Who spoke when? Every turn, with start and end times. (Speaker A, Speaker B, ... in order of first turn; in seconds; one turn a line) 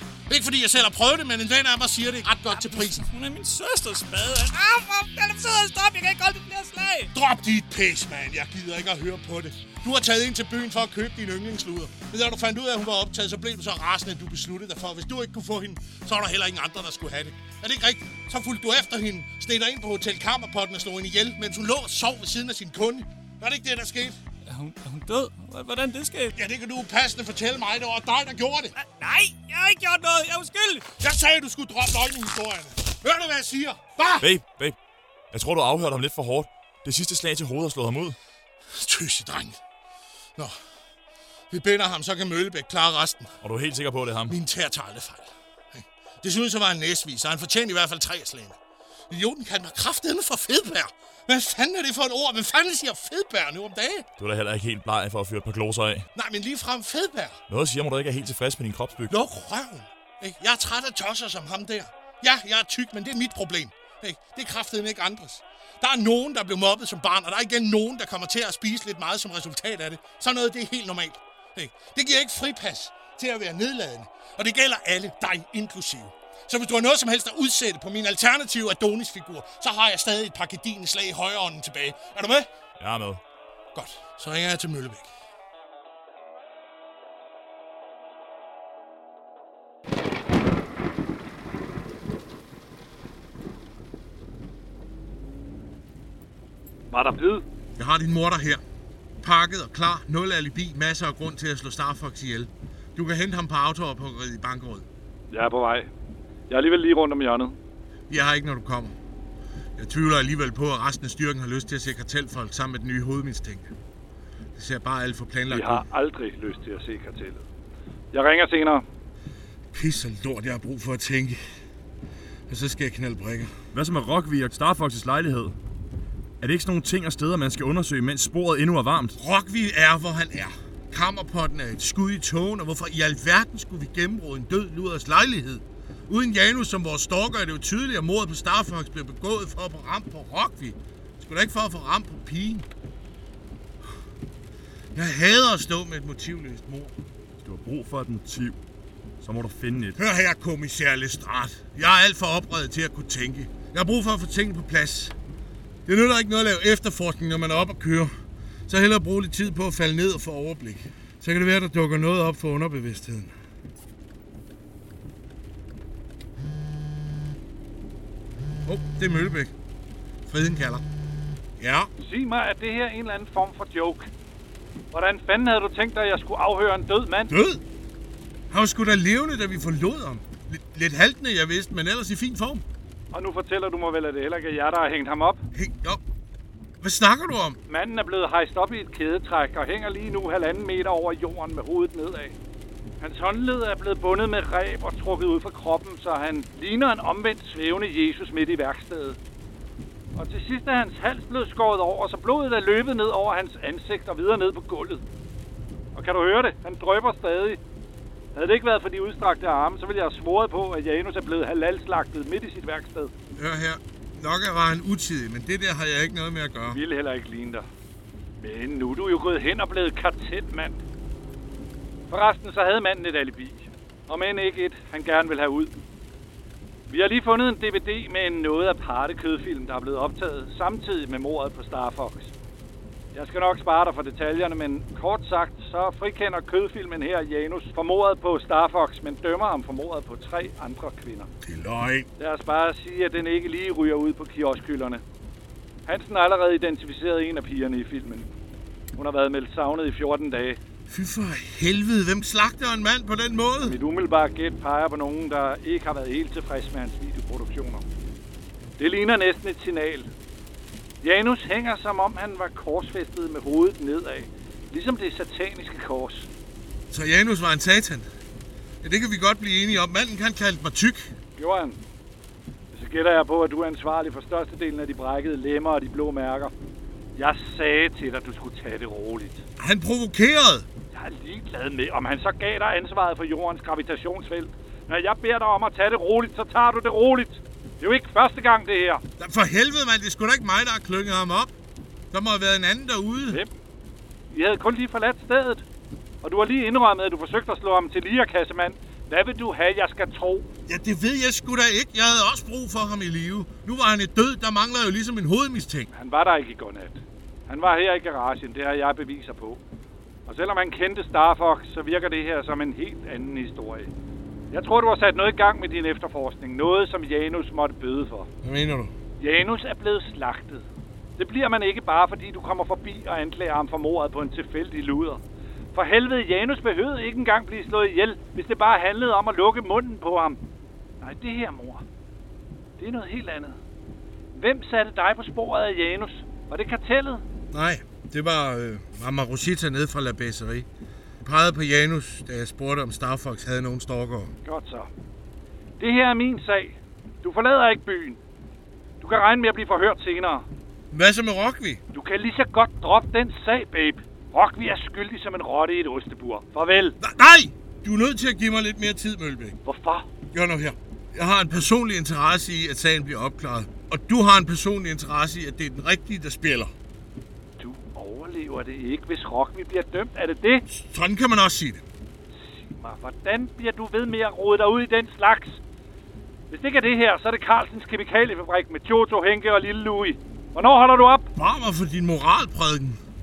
Speaker A: 0.3-3.0
Speaker B: 2.5-7.1
Speaker A: 7.1-24.2
Speaker B: 24.5-26.4
Speaker A: 26.4-28.8
Speaker B: 28.8-30.9
Speaker A: 31.0-34.3
Speaker C: 34.2-34.8
Speaker C: 35.3-38.2
Speaker A: 38.7-39.6
Speaker A: 41.5-43.3
Speaker C: 43.4-44.4
Speaker A: 44.3-48.6
Speaker A: 49.1-54.1
Speaker C: 54.2-56.1
Speaker A: 56.1-57.4
Speaker C: 57.5-59.2
Speaker A: 59.1-82.5
Speaker C: 82.8-83.2
Speaker A: 83.8-85.1
Speaker D: 96.9-97.4
Speaker A: 97.8-98.6
Speaker A: 99.2-104.9
Speaker D: 105.3-105.9
Speaker D: 106.5-107.6
Speaker A: 108.1-109.0
Speaker A: 109.8-113.7
Speaker A: 114.6-115.8
Speaker D: 115.5-117.4
Speaker D: 118.1-118.8
Speaker A: 119.7-121.4
Speaker A: 122.5-123.5
Speaker C: 123.7-125.6
Speaker C: 126.4-129.2
Speaker A: 129.2-142.7
Speaker A: 144.9-146.9
Speaker C: 147.4-148.6
Speaker C: 149.2-150.0
Speaker A: 150.0-155.1
Speaker A: 155.9-158.1
Speaker A: 158.7-163.3
Speaker A: 168.7-169.5
Speaker A: 170.3-170.8
Speaker A: 171.6-171.9
Speaker D: 172.0-174.1
Speaker D: 174.9-177.3
Speaker A: 177.3-177.6
Speaker A: 178.5-182.6
Speaker D: 183.1-185.4
Speaker A: 185.6-186.0
Speaker A: 186.8-187.6
Speaker D: 187.7-192.3
Speaker D: 193.0-199.2
Speaker D: 200.2-205.0
Speaker D: 205.9-207.6
Speaker D: 208.3-213.1
Speaker A: 213.4-216.8
Speaker D: 216.7-217.7
Speaker D: 218.4-220.8
Speaker D: 222.1-225.7
Speaker D: 226.9-232.3
Speaker D: 233.1-241.3
Speaker A: 241.4-242.1
Speaker D: 242.2-245.0
Speaker D: 245.9-248.3
Speaker D: 249.0-250.6
Speaker A: 250.9-253.8
Speaker D: 253.6-257.8
Speaker D: 258.8-260.1
Speaker D: 261.0-266.3
Speaker A: 266.9-268.1
Speaker A: 268.8-271.1
Speaker D: 271.4-271.8
Speaker D: 272.7-276.5
Speaker D: 277.2-279.4
Speaker A: 279.6-280.7
Speaker D: 280.9-289.0
Speaker A: 289.2-291.5
Speaker A: 292.1-293.4
Speaker D: 294.3-295.6
Speaker D: 296.2-300.5
Speaker A: 300.7-305.9
Speaker D: 305.9-309.6
Speaker D: 310.3-313.9
Speaker D: 314.5-318.3
Speaker A: 318.4-318.9
Speaker D: 319.2-320.6
Speaker D: 321.2-325.2
Speaker D: 325.7-330.4
Speaker D: 331.0-331.8
Speaker D: 332.8-333.6
Speaker D: 334.4-337.2
Speaker A: 337.5-340.7
Speaker A: 341.2-344.3
Speaker D: 344.4-344.9
Speaker D: 345.8-348.2
Speaker D: 349.0-350.4
Speaker A: 350.9-351.8
Speaker D: 351.9-357.0
Speaker A: 357.0-359.6
Speaker D: 359.6-360.1
Speaker A: 360.3-366.7
Speaker D: 367.6-370.6
Speaker A: 370.7-371.8
Speaker D: 372.4-375.6
Speaker D: 376.5-381.3
Speaker A: 381.4-383.0